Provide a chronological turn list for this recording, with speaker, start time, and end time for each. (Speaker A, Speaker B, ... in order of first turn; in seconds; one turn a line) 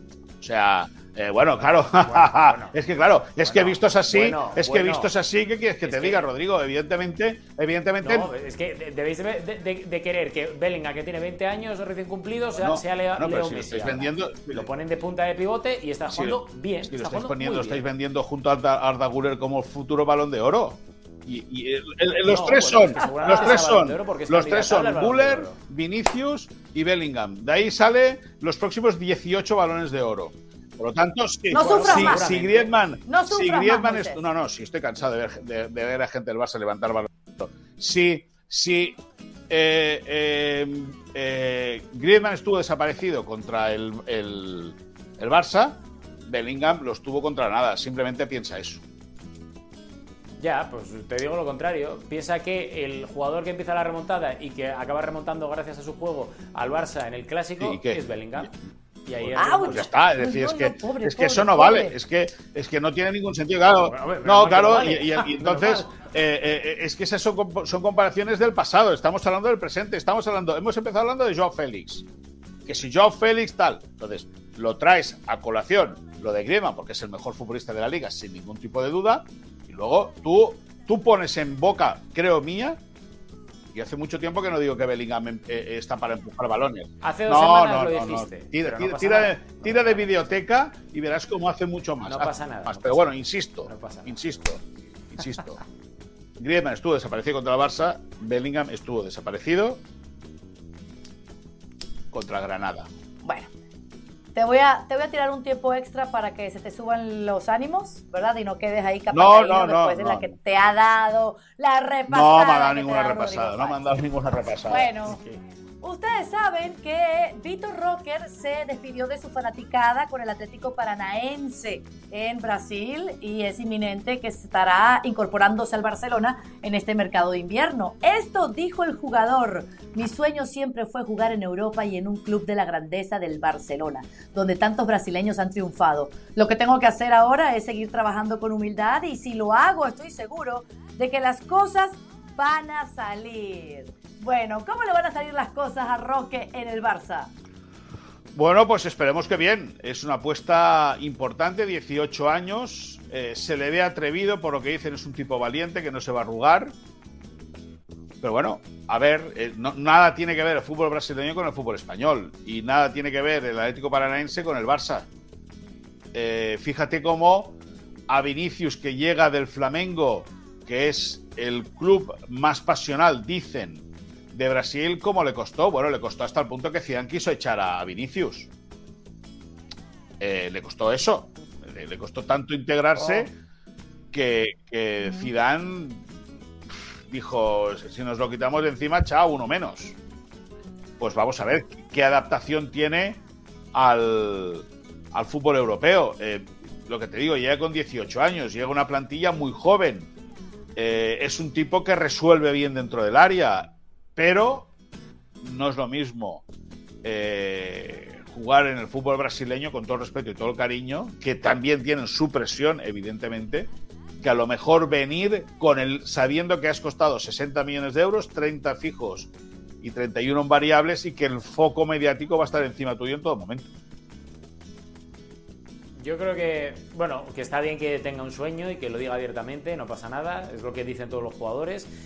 Speaker A: 0.4-8.3
Speaker B: 2.0-2.8
Speaker B: 3.4-5.1
Speaker B: 5.8-6.3
Speaker B: 8.0-17.8
Speaker A: 12.6-14.7
Speaker A: 16.1-48.8
Speaker B: 22.2-25.6
Speaker C: 31.5-32.3
Speaker B: 31.5-32.7
Speaker C: 33.0-34.2
Speaker B: 50.4-58.5
Speaker A: 57.6-58.0
Speaker B: 59.0-59.9
Speaker A: 59.2-72.0
Speaker C: 59.4-61.9
Speaker B: 63.7-65.9
Speaker A: 72.6-82.8
Speaker A: 83.7-94.6
Speaker B: 87.0-90.3
Speaker B: 92.0-94.2
Speaker A: 95.2-95.6
Speaker A: 96.4-99.8
Speaker A: 102.1-102.9
Speaker C: 103.2-103.5
Speaker C: 104.3-114.0
Speaker A: 109.1-110.3
Speaker A: 112.1-114.9
Speaker C: 114.6-115.2
Speaker B: 115.1-115.4
Speaker C: 115.8-147.3
Speaker A: 148.3-156.7
Speaker A: 158.2-165.1
Speaker A: 166.1-167.6
Speaker A: 168.1-178.5
Speaker A: 180.2-183.3
Speaker A: 184.1-186.1
Speaker A: 187.1-190.0
Speaker A: 191.0-193.2
Speaker A: 193.7-200.1
Speaker A: 200.8-204.7
Speaker A: 205.4-206.4
Speaker A: 207.0-213.7
Speaker A: 214.2-219.3
Speaker A: 219.8-223.7
Speaker B: 226.0-231.9